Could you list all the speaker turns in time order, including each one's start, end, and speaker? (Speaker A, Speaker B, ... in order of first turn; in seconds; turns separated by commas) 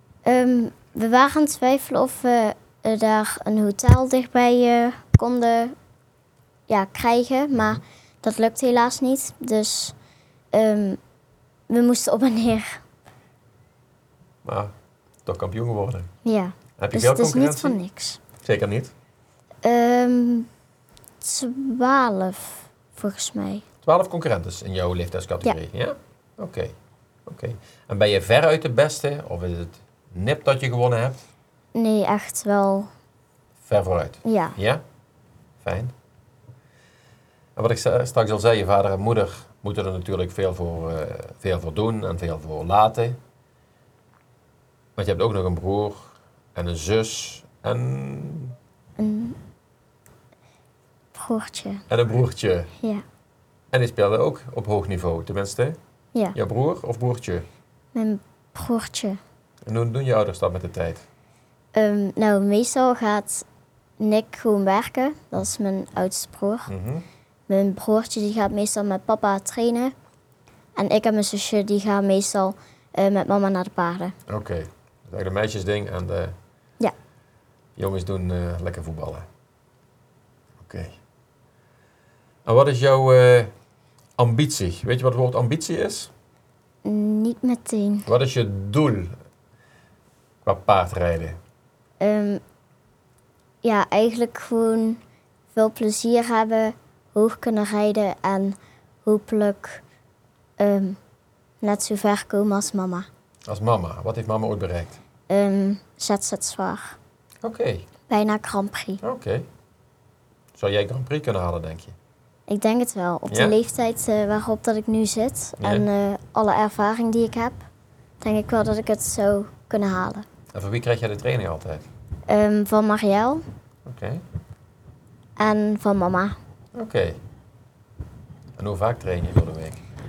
Speaker A: 0.2-5.7, Speaker A: 6.7-9.9, Speaker A: 10.5-11.0, Speaker A: 11.7-12.8, Speaker B: 14.4-14.7, Speaker B: 15.2-16.1, Speaker A: 16.2-18.2, Speaker B: 16.8-17.8, Speaker B: 18.4-18.9, Speaker A: 19.6-20.5, Speaker A: 21.2-23.6, Speaker B: 23.8-26.7, Speaker B: 27.2-31.2, Speaker A: 31.7-32.9, Speaker B: 33.6-34.8, Speaker A: 34.2-34.5, Speaker B: 35.6-35.9, Speaker B: 37.5-43.2, Speaker B: 45.0-48.6, Speaker A: 49.0-49.4, Speaker A: 51.1-51.8, Speaker B: 51.9-52.7, Speaker B: 53.7-55.8, Speaker B: 56.3-57.5, Speaker A: 57.9-59.2, Speaker B: 59.6-61.0, Speaker A: 61.7-63.4, Speaker A: 64.0-66.7, Speaker B: 66.7-67.0, Speaker A: 67.5-69.9, Speaker A: 70.8-74.1, Speaker B: 74.3-76.3, Speaker B: 77.8-79.2, Speaker B: 80.6-81.0, Speaker B: 82.4-83.5, Speaker B: 84.2-86.1, Speaker A: 86.8-88.1, Speaker B: 88.1-89.2, Speaker B: 90.4-91.4, Speaker A: 92.0-92.4, Speaker A: 93.6-95.0, Speaker A: 95.5-99.8, Speaker A: 100.6-101.0, Speaker A: 101.6-103.1, Speaker B: 103.5-105.0, Speaker A: 105.3-106.9, Speaker B: 107.4-107.9, Speaker A: 108.1-109.0, Speaker B: 109.0-109.5, Speaker B: 110.5-111.9, Speaker A: 112.5-117.6, Speaker B: 113.3-113.6, Speaker B: 115.6-115.9, Speaker A: 118.2-120.2, Speaker B: 120.5-121.8, Speaker A: 122.3-123.4, Speaker B: 123.8-124.2, Speaker A: 125.4-126.4, Speaker B: 126.7-127.2, Speaker B: 128.6-129.8